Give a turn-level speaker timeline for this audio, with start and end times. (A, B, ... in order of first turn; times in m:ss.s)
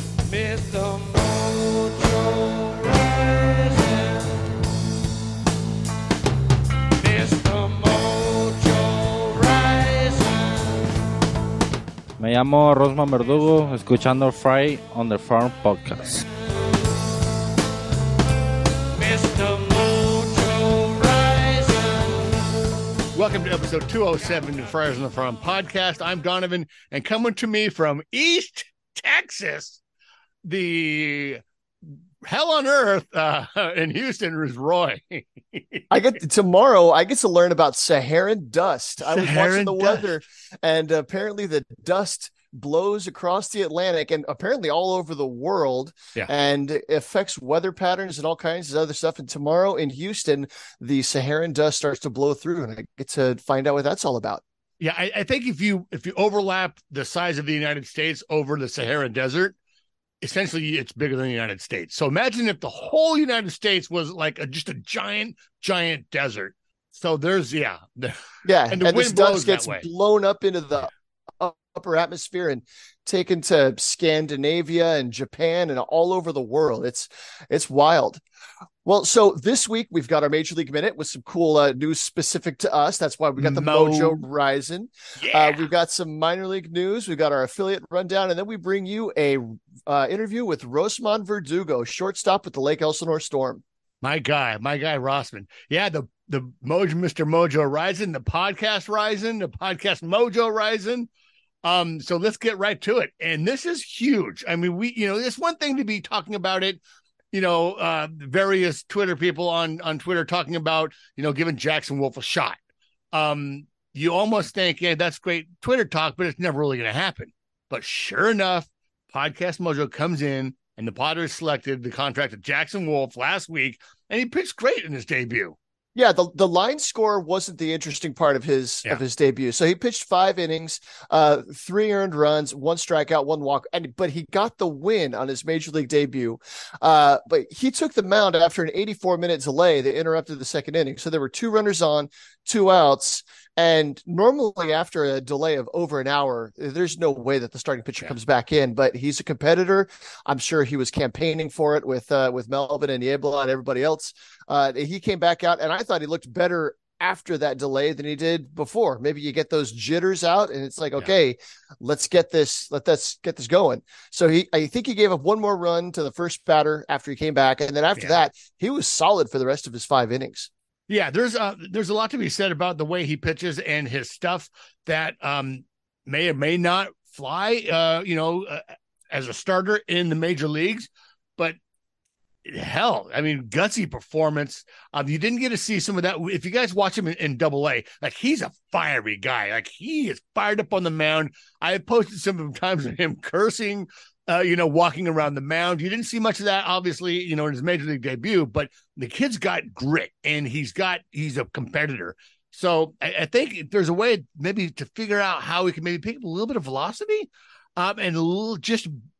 0:00.3-0:04.4 A
0:07.0-0:10.8 A
0:12.2-0:16.2 B
0:18.9-0:22.4 A
0:23.1-0:29.8 C
0:30.4-0:35.8 C
0:35.9-0:54.4 D
0:39.0-0:40.2 C
0:54.8-0:59.6 C
1:00.2-1:09.8 C
1:08.4-1:18.2 D
1:18.8-1:33.6 D
1:23.4-1:24.2 C
1:25.2-1:25.7 C
1:34.0-1:41.1 C
1:41.6-1:46.8 C
1:47.3-1:52.6 C
1:53.1-2:05.6 C
2:05.9-2:50.5 D
2:50.9-3:01.6 C
3:02.4-3:29.0 C